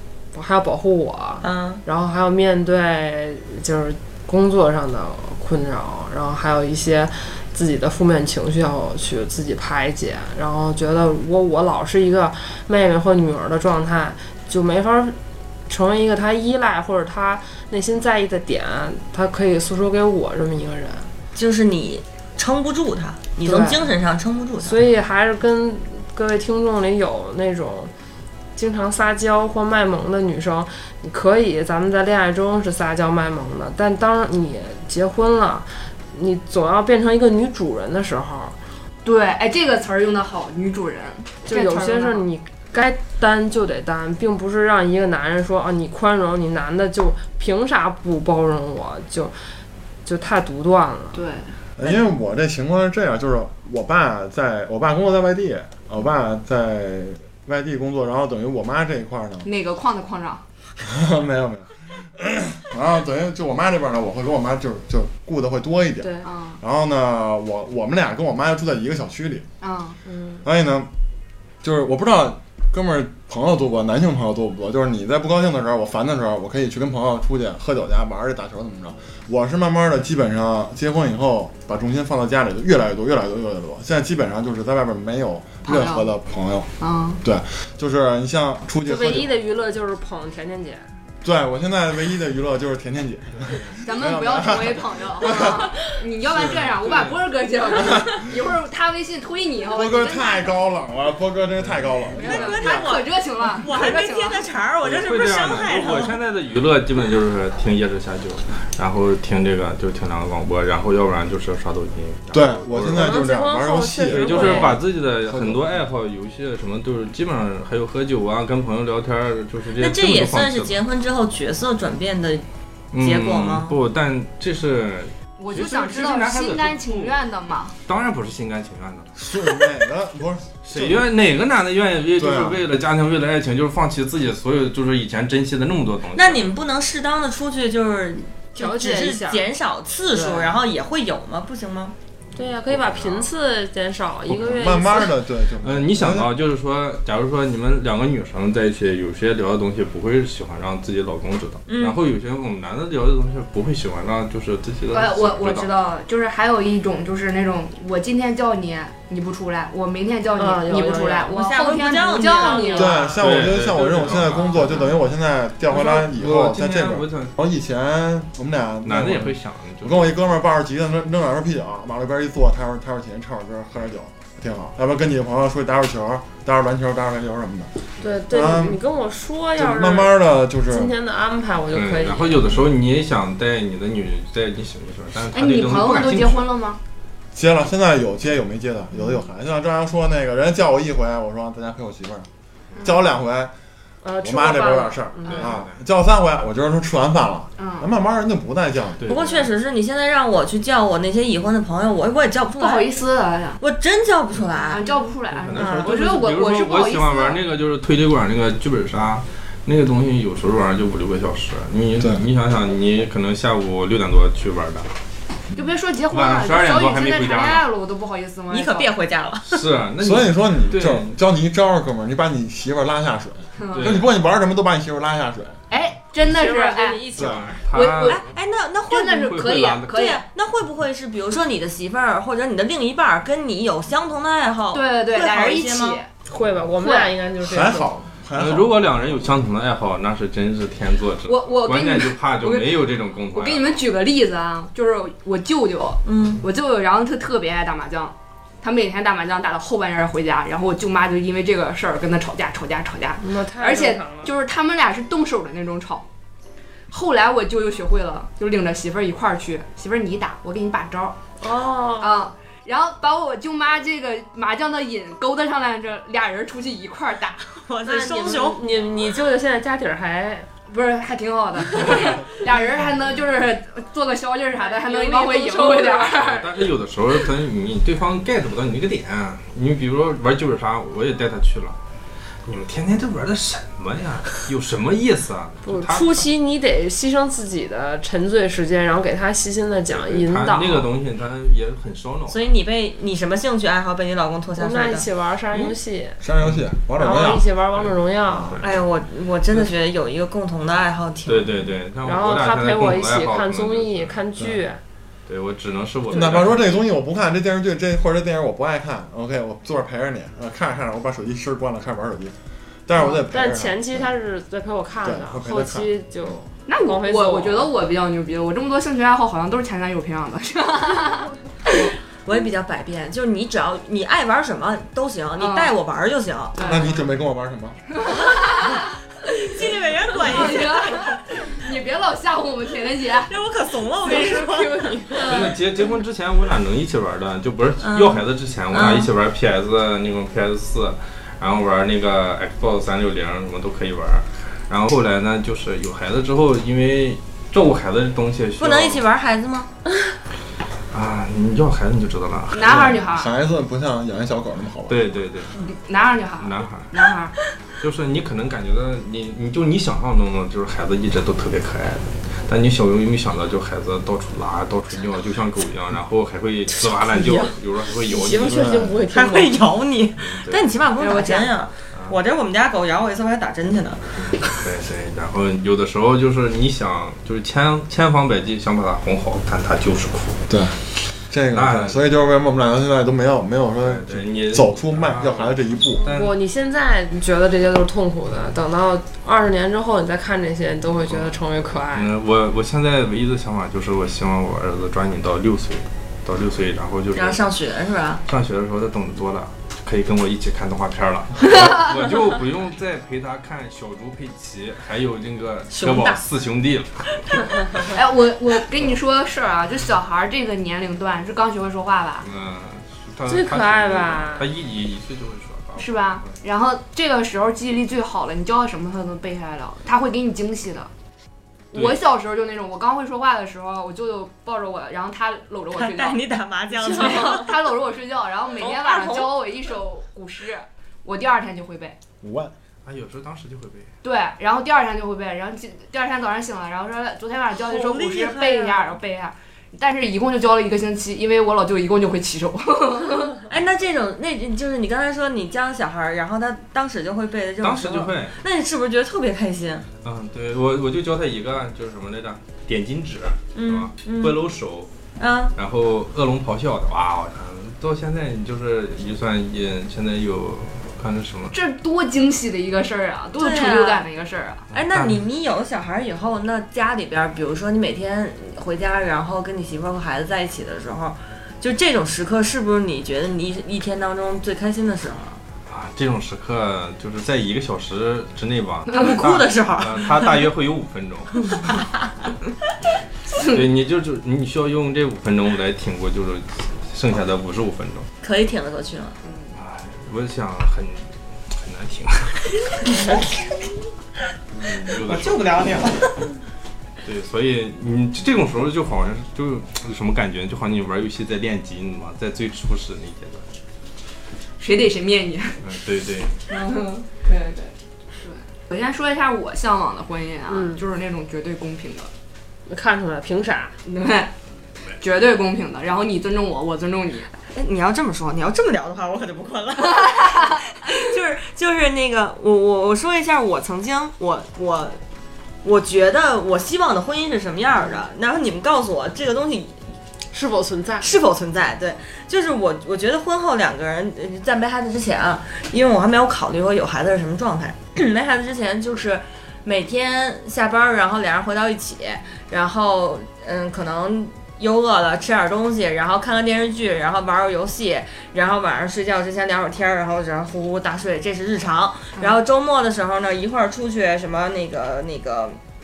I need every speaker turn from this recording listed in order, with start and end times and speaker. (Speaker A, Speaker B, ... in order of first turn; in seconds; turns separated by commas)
Speaker A: 0.3-15.2, Speaker B: 1.4-1.8, Speaker A: 15.7-21.1, Speaker B: 21.4-24.8, Speaker A: 23.4-23.9, Speaker A: 24.6-27.9, Speaker A: 28.6-38.6, Speaker C: 39.0-42.2, Speaker A: 41.5-49.3, Speaker A: 50.0-51.2, Speaker C: 51.1-51.9, Speaker D: 51.8-59.5, Speaker C: 59.4-60.4, Speaker D: 60.8-69.5, Speaker A: 66.0-66.3, Speaker C: 66.2-66.6, Speaker C: 69.6-70.0, Speaker A: 70.1-70.4, Speaker D: 70.4-70.9, Speaker D: 71.6-86.7, Speaker C: 85.6-86.1, Speaker C: 86.8-87.2, Speaker D: 87.2-89.3, Speaker A: 88.8-90.9, Speaker D: 91.2-95.8, Speaker C: 93.8-100.5, Speaker D: 96.3-96.6, Speaker E: 96.8-97.2, Speaker D: 97.8-98.2, Speaker D: 99.7-102.9, Speaker E: 101.6-102.1, Speaker C: 102.1-104.5, Speaker B: 102.2-106.2, Speaker E: 104.8-113.2, Speaker D: 112.3-115.7, Speaker A: 112.9-114.8, Speaker E: 114.0-120.8, Speaker B: 114.2-114.6, Speaker B: 119.8-122.5, Speaker E: 122.9-127.1, Speaker B: 123.0-123.8, Speaker C: 125.4-127.8, Speaker E: 127.9-129.1, Speaker D: 129.1-131.1, Speaker E: 130.6-136.6, Speaker D: 132.2-132.6, Speaker B: 136.1-141.9, Speaker A: 138.6-139.5, Speaker A: 140.1-140.6, Speaker E: 142.3-143.3, Speaker A: 142.3-145.1, Speaker D: 144.3-146.3, Speaker E: 144.6-145.1, Speaker E: 145.6-155.7, Speaker B: 151.7-152.0, Speaker C: 154.9-163.0, Speaker A: 160.4-161.4, Speaker B: 161.3-163.2, Speaker A: 162.4-163.1, Speaker D: 162.8-177.7, Speaker E: 163.1-164.9, Speaker C: 164.6-164.9, Speaker E: 165.7-167.3, Speaker E: 168.8-170.2, Speaker A: 178.0-180.1, Speaker D: 178.3-178.8, Speaker D: 179.6-180.9, Speaker A: 180.7-182.5, Speaker E: 181.7-186.5, Speaker C: 185.3-186.8, Speaker D: 187.3-192.3, Speaker D: 192.8-193.5, Speaker A: 194.0-195.4, Speaker D: 194.2-199.0, Speaker E: 195.3-195.8, Speaker C: 197.6-197.9, Speaker E: 199.0-199.5, Speaker B: 199.1-202.9, Speaker C: 202.6-203.6, Speaker B: 203.6-204.8, Speaker C: 204.7-207.4, Speaker E: 205.3-214.9, Speaker B: 205.6-205.9, Speaker C: 215.6-218.9, Speaker E: 216.1-217.7, Speaker B: 218.5-219.6, Speaker E: 219.5-221.1, Speaker D: 220.0-225.6, Speaker C: 223.6-224.0, Speaker E: 223.7-224.1, Speaker C: 225.7-227.0, Speaker A: 226.2-227.6, Speaker E: 227.2-228.2, Speaker D: 227.2-227.5, Speaker C: 227.7-228.2, Speaker B: 228.1-236.0, Speaker C: 228.9-230.2, Speaker E: 229.1-229.9, Speaker C: 234.7-236.1, Speaker A: 236.2-238.0, Speaker C: 236.8-237.1, Speaker D: 237.4-238.9, Speaker E: 238.3-243.8, Speaker C: 241.2-256.1, Speaker B: 246.1-246.4, Speaker A: 253.2-254.3, Speaker C: 256.9-261.2, Speaker A: 261.4-262.2, Speaker C: 262.0-267.5, Speaker B: 267.6-268.6, Speaker A: 267.8-270.5, Speaker C: 270.7-276.5, Speaker A: 274.6-276.2, Speaker E: 276.1-281.8, Speaker E: 282.4-286.2, Speaker A: 285.6-290.9, Speaker E: 289.9-292.4, Speaker B: 292.3-295.1, Speaker A: 294.6-296.2, Speaker D: 296.2-297.5, Speaker E: 296.4-296.7, Speaker A: 297.0-298.6, Speaker E: 297.8-298.9, Speaker B: 298.6-301.7, Speaker E: 301.2-304.2, Speaker A: 302.1-304.8, Speaker E: 305.3-306.8, Speaker D: 306.1-312.3, Speaker D: 312.9-314.1, Speaker A: 313.0-317.7, Speaker D: 315.0-316.4, Speaker C: 316.7-321.9, Speaker B: 322.2-326.6, Speaker C: 325.4-325.8, Speaker C: 326.6-327.0, Speaker D: 326.6-327.8, Speaker C: 327.9-328.9, Speaker B: 329.4-331.2, Speaker C: 330.1-333.4, Speaker B: 333.3-335.6, Speaker A: 334.1-335.3, Speaker E: 335.2-349.1, Speaker B: 337.8-339.1, Speaker B: 348.6-349.7, Speaker E: 350.9-352.9, Speaker C: 352.5-353.3, Speaker D: 352.6-355.1, Speaker E: 354.9-355.6, Speaker C: 355.6-357.4, Speaker E: 356.4-357.1, Speaker E: 357.8-368.7, Speaker A: 366.7-369.6, Speaker D: 368.4-369.0, Speaker B: 369.1-374.3, Speaker E: 370.2-370.8, Speaker C: 371.0-371.5, Speaker E: 371.9-372.2, Speaker E: 374.1-380.5, Speaker D: 380.5-386.0, Speaker E: 381.5-382.0, Speaker E: 383.8-386.3, Speaker A: 386.1-392.1, Speaker E: 391.1-397.4, Speaker B: 397.1-398.2, Speaker E: 398.2-407.4, Speaker B: 405.7-406.2, Speaker C: 407.9-412.3, Speaker E: 412.2-416.4, Speaker A: 413.3-414.5, Speaker C: 415.8-420.9, Speaker C: 421.7-426.2, Speaker E: 421.7-422.0, Speaker B: 425.8-427.5, Speaker C: 426.8-432.0, Speaker A: 427.0-427.4, Speaker B: 428.6-429.4, Speaker D: 432.2-432.5, Speaker E: 432.8-433.9, Speaker C: 434.0-443.4, Speaker B: 437.5-439.0, Speaker B: 443.4-449.9, Speaker E: 447.6-448.4, Speaker E: 450.0-454.9, Speaker B: 453.5-454.4, Speaker B: 455.2-455.5, Speaker E: 455.5-461.6, Speaker C: 461.5-464.6, Speaker B: 463.4-464.1, Speaker E: 464.7-465.2, Speaker B: 464.7-475.4, Speaker E: 475.7-481.7, Speaker B: 478.9-480.4, Speaker B: 481.5-481.8, Speaker C: 483.3-483.6, Speaker E: 483.4-488.1, Speaker B: 488.2-489.2, Speaker C: 489.2-489.5, Speaker E: 489.5-492.8, Speaker B: 492.9-493.3, Speaker E: 494.5-495.8, Speaker B: 494.9-496.3, Speaker E: 497.0-503.4, Speaker C: 504.6-505.6, Speaker E: 505.6-506.4, Speaker C: 506.5-512.1, Speaker A: 510.5-510.8, Speaker A: 512.7-513.8, Speaker C: 513.8-514.3, Speaker C: 515.0-517.3, Speaker B: 517.5-525.0, Speaker C: 520.0-520.5, Speaker B: 525.6-529.8, Speaker A: 530.3-531.1, Speaker B: 531.0-555.6